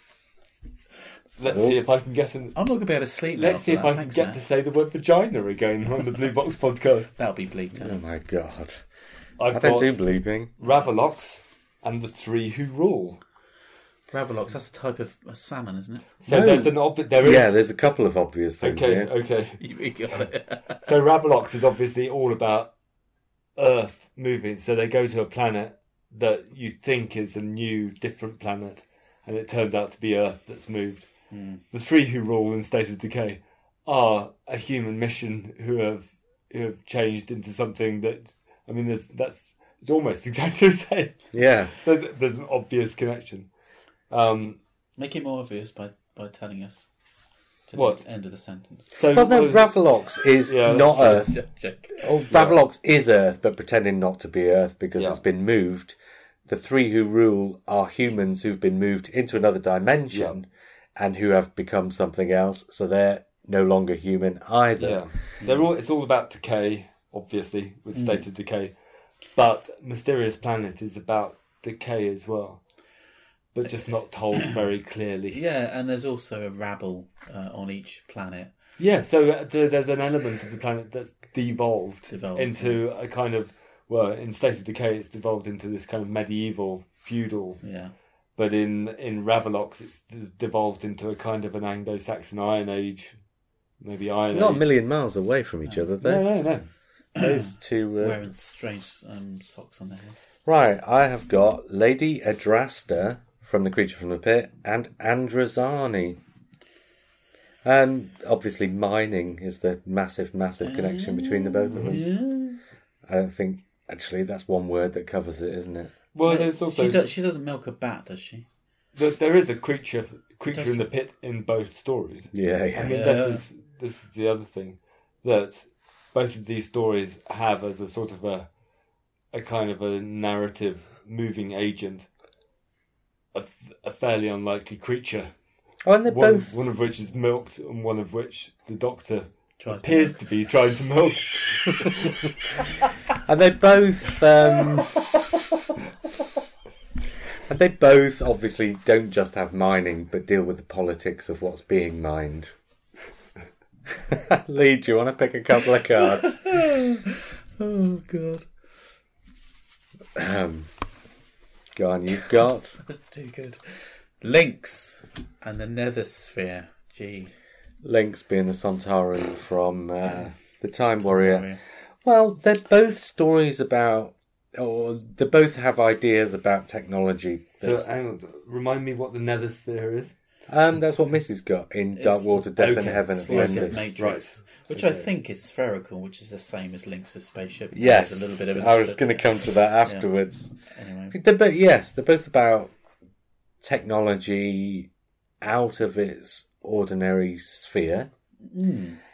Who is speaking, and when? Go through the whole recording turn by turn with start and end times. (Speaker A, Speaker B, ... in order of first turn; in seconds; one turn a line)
Speaker A: 1.4-2.6
Speaker B: 1.5-1.8
Speaker C: 2.5-4.4
Speaker A: 3.3-7.1
Speaker C: 7.2-8.0
Speaker B: 7.8-8.8
Speaker A: 9.4-10.0
Speaker B: 9.5-10.5
Speaker A: 10.6-13.2
Speaker C: 14.1-16.1
Speaker A: 16.2-17.5
Speaker B: 16.3-19.1
Speaker A: 18.6-19.6
Speaker C: 19.6-20.8
Speaker A: 20.8-22.7
Speaker A: 23.6-31.1
Speaker C: 31.3-31.6
Speaker A: 31.7-43.5
Speaker B: 41.3-41.7
Speaker A: 44.1-44.6
Speaker C: 45.0-46.9
Speaker C: 47.7-48.9
Speaker A: 47.7-48.0
Speaker A: 48.9-51.3
Speaker B: 49.1-51.3
Speaker C: 51.1-52.1
Speaker B: 52.0-65.0
Speaker A: 52.3-52.6
Speaker A: 64.8-68.7
Speaker C: 67.9-68.2
Speaker A: 69.3-72.6
Speaker A: 73.5-75.4
Speaker C: 75.3-78.5
Speaker A: 78.8-87.6
Speaker C: 82.1-82.8
Speaker C: 87.6-87.9
Speaker A: 88.4-93.2
Speaker A: 93.8-94.7
Speaker B: 94.3-96.3
Speaker A: 96.0-96.7
Speaker B: 97.2-98.2
Speaker C: 97.2-100.3
Speaker B: 100.5-106.2
Speaker B: 107.6-112.0
Speaker C: 110.6-112.6
Speaker B: 113.0-115.9
Speaker A: 116.1-117.0
Speaker C: 116.2-118.5
Speaker A: 118.9-128.5
Speaker C: 120.5-120.9
Speaker B: 122.3-123.0
Speaker C: 122.8-123.4
Speaker A: 129.3-132.1
Speaker A: 133.3-135.3
Speaker B: 135.8-136.6
Speaker A: 136.1-142.3
Speaker C: 139.6-140.2
Speaker B: 143.2-144.9
Speaker B: 147.5-152.5
Speaker B: 154.1-156.5
Speaker C: 156.0-158.4
Speaker B: 160.1-160.7
Speaker B: 161.7-162.8
Speaker C: 162.8-167.3
Speaker B: 167.8-171.5
Speaker C: 171.0-171.6
Speaker B: 172.0-177.8
Speaker A: 177.6-180.1
Speaker B: 180.5-183.8
Speaker C: 181.9-191.2
Speaker A: 182.6-185.1
Speaker B: 187.7-190.5
Speaker B: 191.1-192.7
Speaker B: 193.6-194.9
Speaker B: 195.4-198.1
Speaker C: 198.5-199.0